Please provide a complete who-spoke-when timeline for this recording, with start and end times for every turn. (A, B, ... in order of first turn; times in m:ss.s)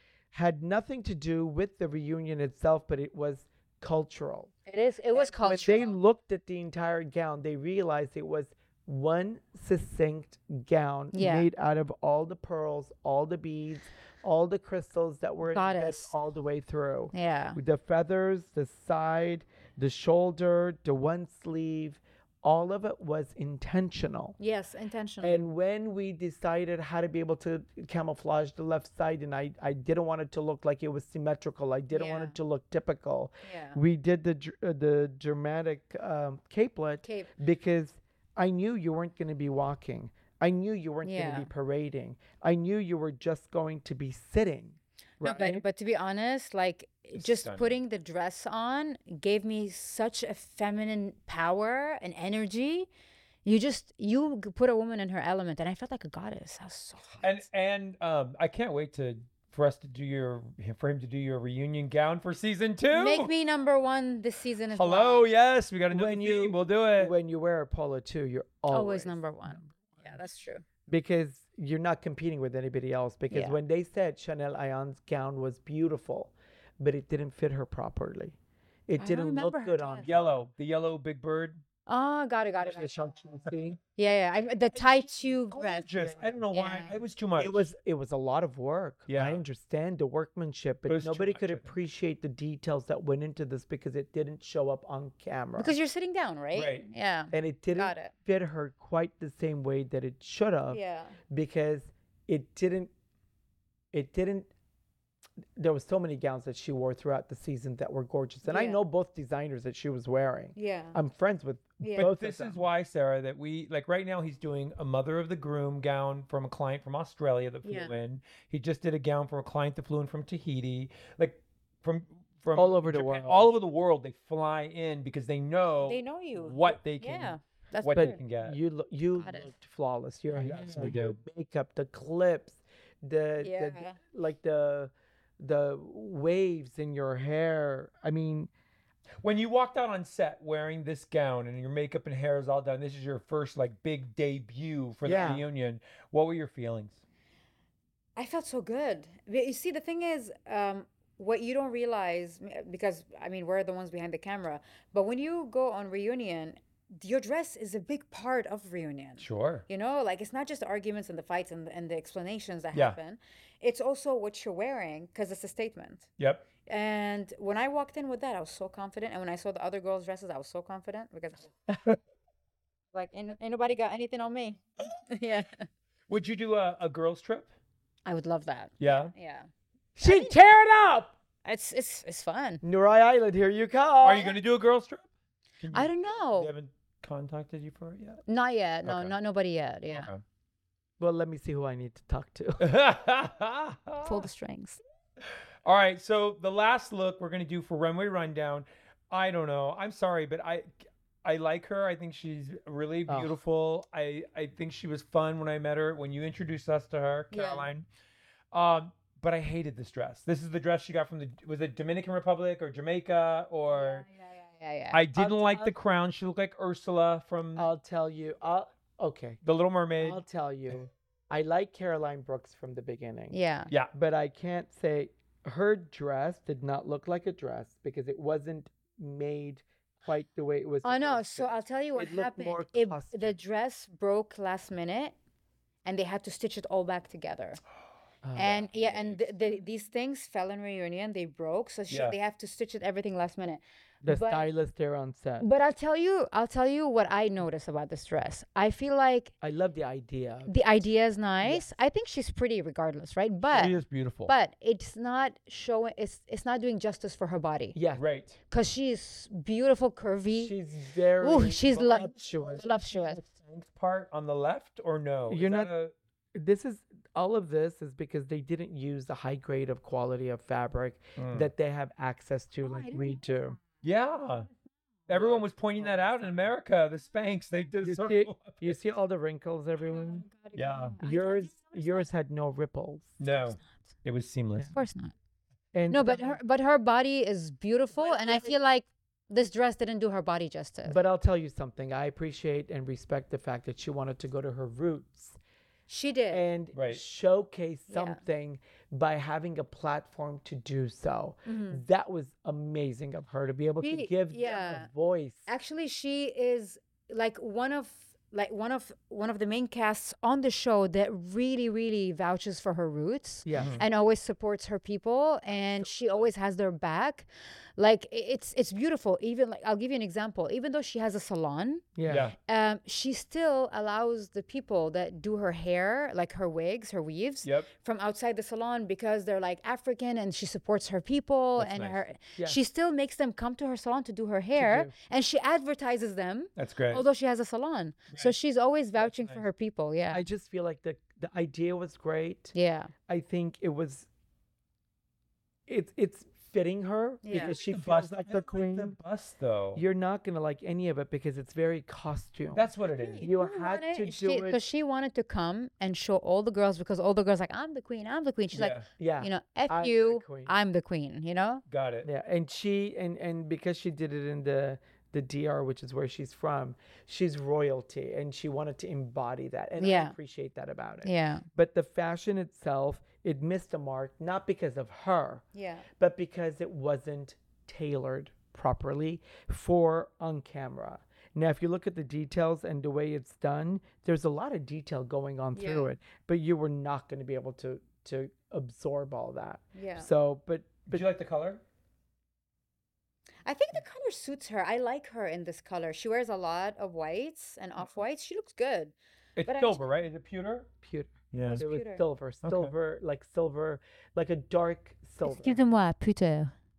0:00.3-0:04.5 A
0:04.7-0:06.0 B
0:05.1-0:24.4 A
0:11.1-0:11.5 B
0:15.5-0:16.1 B
0:17.1-0:17.6 B
0:24.4-0:25.4 B
0:25.2-0:45.6 A
0:31.9-0:32.4 B
0:33.4-0:33.8 B
0:37.0-0:37.3 B
0:41.0-0:41.5 B
0:45.2-0:52.9 B
0:47.2-0:47.8 C
0:53.4-0:57.4 B
0:57.2-1:03.3 C
1:02.9-1:05.2 B
1:04.7-1:07.1 C
1:05.9-1:10.0 A
1:08.7-1:10.6 B
1:10.9-1:18.4 A
1:13.3-1:13.6 B
1:18.9-1:20.3 A
1:19.0-1:20.1 B
1:20.0-1:21.6 C
1:21.9-1:22.9 B
1:22.6-1:23.8 A
1:24.0-1:25.9 B
1:25.5-1:27.7 C
1:26.0-1:26.3 A
1:26.5-1:27.0 B
1:27.4-1:35.7 A
1:29.1-1:29.4 C
1:30.9-1:31.7 C
1:35.6-1:38.1 B
1:36.5-1:36.9 C
1:37.3-1:42.9 A
1:40.7-1:41.2 B
1:43.9-1:44.5 A
1:45.6-1:52.6 A
1:48.4-1:48.8 B
1:50.6-1:51.0 B
1:51.8-1:52.1 B
1:52.0-2:08.6 C
1:57.6-1:57.9 B
2:02.6-2:03.5 A
2:05.8-2:08.2 B
2:07.9-2:18.5 A
2:09.2-2:09.5 B
2:10.3-2:11.2 C
2:13.4-2:14.0 B
2:19.2-2:27.0 C
2:25.0-2:25.5 A
2:28.2-2:46.1 B
2:39.2-2:39.7 C
2:46.2-2:46.5 C
2:46.7-2:51.5 B
2:52.9-2:55.7 B
2:56.1-2:57.5 C
2:58.1-2:59.5 B
2:58.8-2:59.1 C
3:00.0-3:01.1 A
3:00.0-3:00.4 B
3:01.4-3:02.6 B
3:02.6-3:04.4 A
3:04.0-3:05.1 C
3:05.6-3:08.2 C
3:05.7-3:06.5 B
3:08.3-3:10.1 B
3:08.8-3:09.2 C
3:09.9-3:10.2 C
3:11.0-3:12.7 A
3:12.6-3:14.3 C
3:14.0-3:14.8 B
3:15.6-3:27.8 C
3:27.3-3:27.7 B
3:28.5-3:34.1 C
3:33.7-3:35.0 B
3:34.9-3:37.7 C
3:35.2-3:35.8 A
3:37.6-3:39.4 A
3:39.4-3:40.2 C
3:40.0-3:43.4 A
3:43.3-3:43.7 B
3:43.9-3:53.4 A
3:50.8-3:55.2 B
3:55.8-3:57.6 B
3:58.2-3:58.6 A
3:58.4-4:04.5 B
3:58.4-3:59.3 C
4:01.9-4:02.2 C
4:04.0-4:05.5 A
4:05.4-4:09.3 B
4:09.4-4:10.5 A
4:10.5-4:17.8 B
4:11.4-4:11.7 A
4:13.5-4:14.3 C
4:17.7-4:18.0 A
4:18.0-4:18.4 C
4:18.5-4:20.5 B
4:20.4-4:22.7 A
4:21.2-4:23.2 B
4:22.9-4:25.9 C
4:25.3-4:25.7 A
4:26.3-4:33.6 A
4:31.2-4:31.5 C
4:32.6-4:33.3 B
4:33.8-4:34.5 C
4:35.1-4:36.3 A
4:35.1-4:38.6 C
4:37.8-4:40.3 A
4:39.9-4:42.1 B
4:40.5-4:41.0 C
4:41.0-4:43.2 A
4:43.2-4:44.7 C
4:44.7-4:45.1 B
4:45.7-4:46.4 A
4:45.9-4:51.0 B
4:48.0-4:48.5 A
4:50.9-4:55.4 A
4:55.9-4:56.4 B
4:56.3-5:05.5 A
4:56.7-4:57.0 C
4:57.9-4:58.2 B
5:01.5-5:01.8 B
5:03.8-5:04.9 B
5:05.5-5:21.9 B
5:13.4-5:13.8 A
5:13.6-5:13.8 C
5:15.5-5:16.3 A
5:22.0-5:22.3 A
5:22.1-5:22.4 C
5:22.5-5:40.2 B
5:31.6-5:32.0 C
5:34.6-5:34.9 A
5:36.6-5:37.0 C
5:39.0-5:39.4 C
5:40.1-5:42.5 A
5:42.5-5:42.9 B
5:43.1-5:44.1 A
5:45.7-5:49.0 A
5:47.2-5:47.6 B
5:47.3-5:49.8 C
5:49.8-5:52.7 A
5:52.5-5:53.3 C
5:53.0-6:01.6 B
5:53.2-5:54.6 A
5:58.5-5:58.9 C
5:59.0-6:00.6 A
6:01.7-6:02.1 C
6:02.0-6:15.4 A
6:09.8-6:10.2 B
6:11.0-6:11.5 B
6:15.6-6:15.9 B
6:16.0-6:31.1 A
6:25.6-6:25.9 B
6:29.7-6:30.1 B
6:30.9-6:31.6 C
6:33.4-6:38.9 B
6:39.4-6:40.7 C
6:39.4-6:39.8 B
6:40.8-6:45.6 A
6:41.3-6:41.6 C
6:41.5-6:42.0 B
6:42.4-6:42.7 C
6:45.2-6:46.5 B